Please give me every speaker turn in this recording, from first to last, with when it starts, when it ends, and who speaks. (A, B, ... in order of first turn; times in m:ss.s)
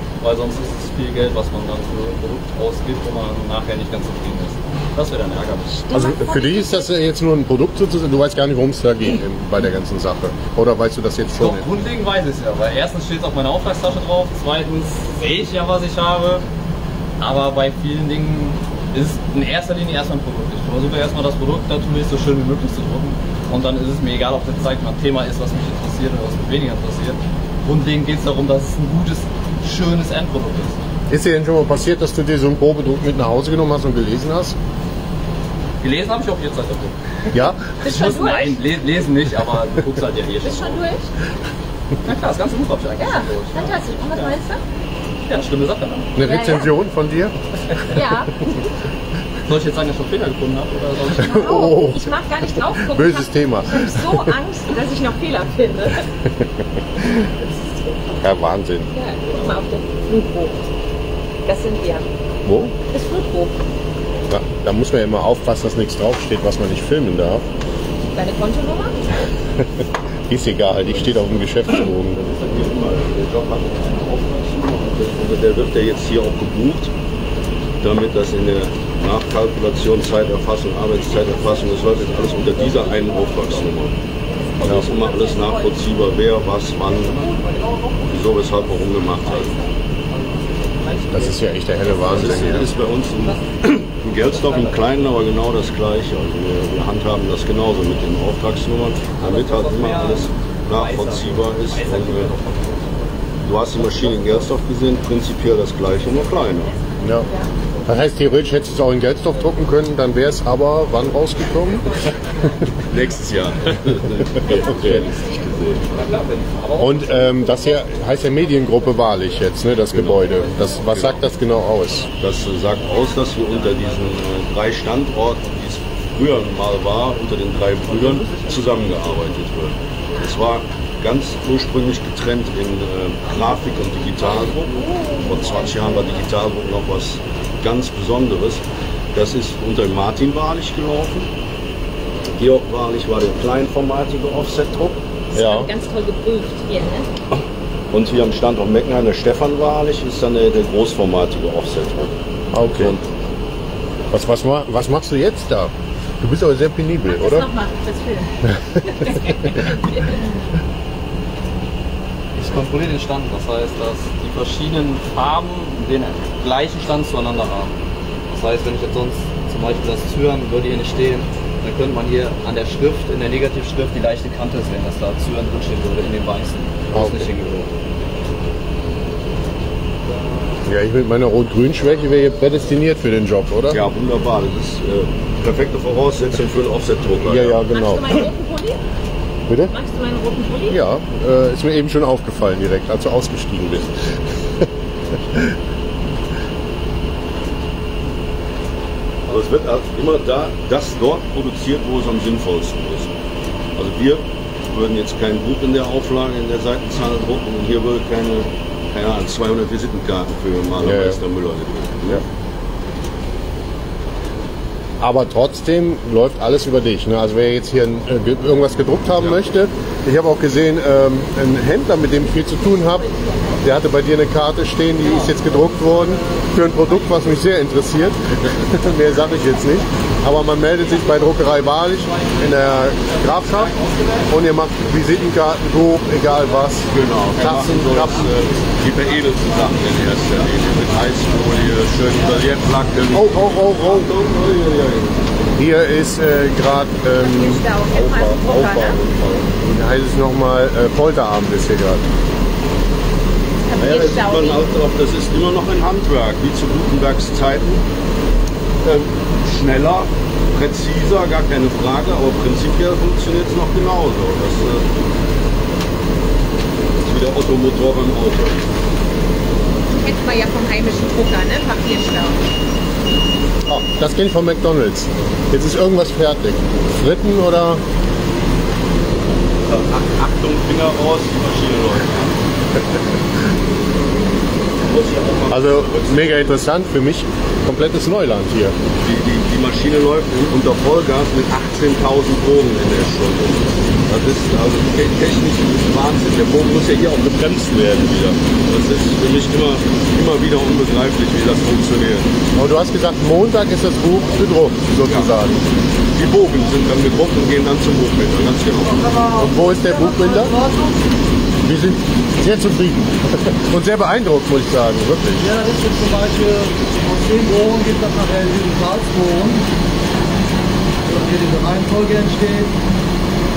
0:00.2-0:05.9 A
0:05.9-0:06.9 B
0:05.9-0:11.6 C
0:11.4-0:16.4 A
0:17.2-0:30.8 A
0:31.1-0:34.6 C
0:35.8-0:40.8 A
0:37.3-0:37.7 C
0:37.8-0:38.6 B
0:40.4-0:41.1 B
0:42.0-0:44.3 A
0:43.0-0:44.6 B
0:45.3-0:46.1 A
0:46.2-0:47.4 C
0:46.2-0:46.7 B
0:47.9-0:48.6 B
0:49.4-0:51.5 A
0:51.2-0:56.1 B
0:51.2-0:52.2 C
0:52.7-0:54.3 C
0:58.2-0:58.9 C
0:59.0-1:00.6 B
1:01.5-1:02.0 B
1:02.4-1:02.7 C
1:02.9-1:03.6 B
1:04.3-1:07.4 C
1:08.1-1:09.0 B
1:10.3-1:12.2 C
1:12.1-1:16.9 D
1:17.8-1:24.0 D
1:22.5-1:23.4 A
1:24.6-1:27.2 D
1:24.6-1:24.9 C
1:24.8-1:25.5 B
1:27.1-1:28.0 A
1:28.1-1:29.5 D
1:29.2-1:29.5 A
1:30.1-1:31.4 A
1:31.1-1:32.7 C
1:32.0-1:32.2 A
1:32.0-1:42.3 D
1:39.2-1:42.9 A
1:43.4-1:46.7 D
1:47.0-1:47.3 C
1:47.9-1:52.0 C
1:52.9-1:56.0 D
1:54.6-1:55.1 B
1:54.6-1:55.1 C
1:55.9-1:57.6 A
1:56.8-2:02.1 C
1:59.9-2:01.2 D
2:00.2-2:01.2 A
2:02.2-2:14.6 D
2:02.6-2:04.1 A
2:07.9-2:09.3 A
2:14.6-2:16.0 B
2:15.2-2:18.6 D
2:19.1-2:21.3 D
2:22.4-2:25.0 D
2:25.3-2:27.1 B
2:25.3-2:25.7 C
2:27.9-2:33.1 D
2:32.5-2:32.9 C
2:34.1-2:37.5 C
2:37.1-2:40.2 B
2:42.4-2:47.7 A
2:48.3-2:57.7 A
2:56.9-2:57.3 C
3:00.7-3:03.8 C
3:03.7-3:07.6 D
3:07.3-3:08.2 C
3:07.7-3:08.8 B
3:09.5-3:09.7 C
3:09.7-3:10.8 B
3:10.7-3:14.7 C
3:19.3-3:23.1 D
3:23.8-3:32.2 D
3:30.8-3:31.2 C
3:35.0-3:43.1 C
3:43.0-3:43.6 B
3:43.6-3:53.7 C
3:45.0-3:47.4 A
3:52.0-3:54.3 A
3:54.3-3:58.3 C
3:56.9-4:05.2 D
4:03.1-4:04.1 C
4:05.6-4:07.6 C
4:07.2-4:09.0 B
4:07.9-4:09.6 D
4:09.7-4:12.0 C
4:13.6-4:14.6 B
4:13.8-4:17.8 D
4:18.8-4:24.8 D
4:27.0-4:28.7 D
4:29.9-4:32.4 B
4:33.7-4:37.8 C
4:39.7-4:42.4 D
4:44.9-4:46.4 D
4:45.5-4:48.8 C
4:49.0-5:02.3 D
5:02.6-5:05.6 C
5:06.2-5:09.1 D
5:08.8-5:11.0 E
5:09.4-5:10.5 C
5:11.6-5:15.5 C
5:15.4-5:19.7 E
5:21.0-5:22.7 E